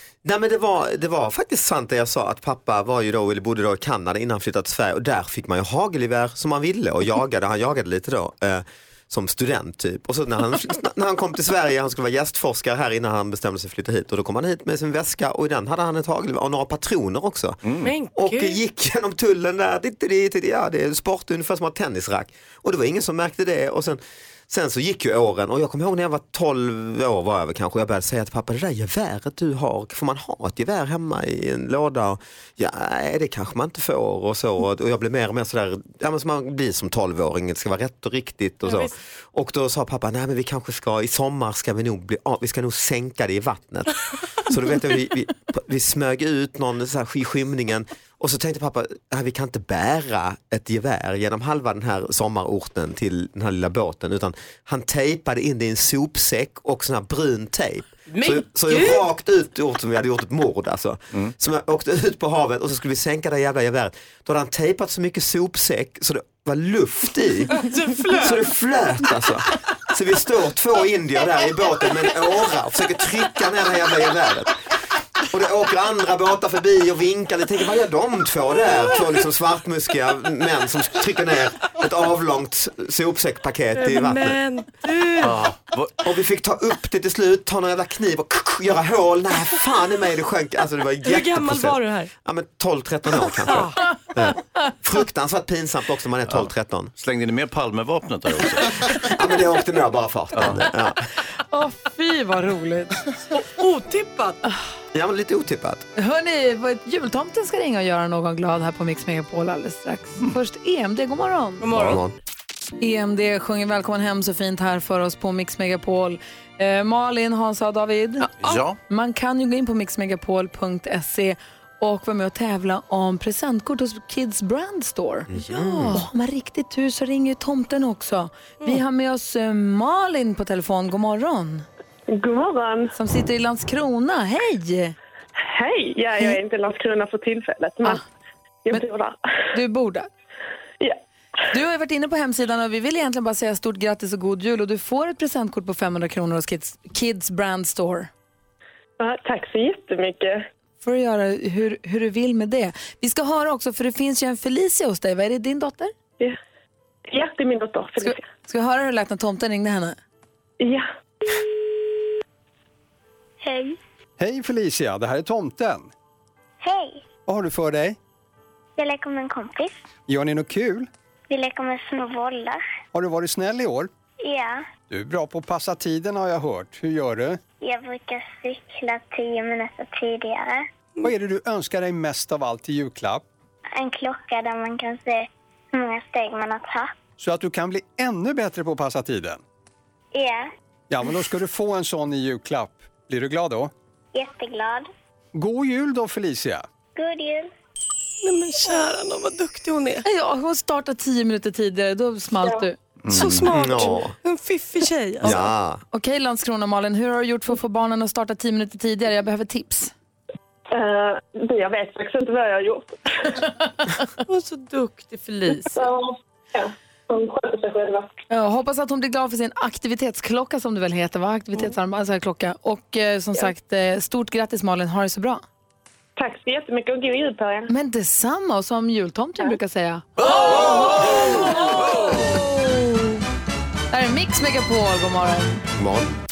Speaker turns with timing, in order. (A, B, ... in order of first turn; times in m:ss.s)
0:00.2-0:17.6 A
0:17.6-0:17.9 B
0:17.8-0:18.6 C
0:18.2-1:07.5 A
0:38.6-0:38.9 C
0:58.1-0:59.1 C
1:07.5-1:08.5 C
1:08.2-1:14.5 A
1:15.3-1:24.4 A
1:23.7-1:25.4 C
1:25.2-1:26.0 B
1:26.0-1:36.9 A
1:31.0-1:32.1 C
1:33.2-1:33.8 C
1:36.3-1:39.0 B
1:39.0-1:41.1 A
1:40.3-1:40.6 B
1:41.4-1:43.0 D
1:43.6-1:44.4 C
1:44.9-1:45.8 A
1:45.9-1:51.6 D
1:51.6-1:52.0 C
1:51.8-1:52.1 A
1:52.8-1:58.3 D
1:58.4-1:58.8 B
1:58.9-2:11.6 D
2:05.3-2:06.0 A
2:12.1-2:12.9 E
2:12.9-2:14.9 D
2:15.5-2:18.0 E
2:18.6-2:19.2 E
2:19.5-2:20.1 D
2:21.5-2:28.1 D
2:29.0-2:30.4 E
2:30.8-2:35.9 D
2:37.1-2:38.2 E
2:38.0-2:40.0 D
2:40.6-2:40.9 E
2:43.4-2:43.8 F
2:44.2-2:45.9 G
2:46.6-2:47.0 F
2:47.3-2:48.0 G
2:48.8-2:49.7 F
2:50.1-2:50.9 G
2:51.3-2:52.6 F
2:52.9-2:53.9 G
2:54.2-2:54.7 F
2:54.9-2:57.4 G
2:57.6-3:00.6 F
3:01.0-3:03.2 G
3:03.7-3:06.9 F
3:07.2-3:09.4 G
3:10.1-3:10.5 F
3:10.9-3:13.7 G
3:14.1-3:14.9 F
3:15.3-3:16.6 G
3:17.0-3:17.5 F
3:18.2-3:20.0 C
3:20.0-3:22.8 D
3:23.0-3:23.5 B
3:23.1-3:25.5 C
3:23.4-3:24.1 A
3:25.2-3:25.8 A
3:25.9-3:29.9 D
3:30.7-3:33.1 E
3:34.3-3:35.9 C
3:35.7-3:38.1 E
3:38.3-3:45.4 D
3:46.2-3:47.7 E
3:47.7-3:53.2 D
3:53.9-3:55.6 D
3:55.8-3:56.1 A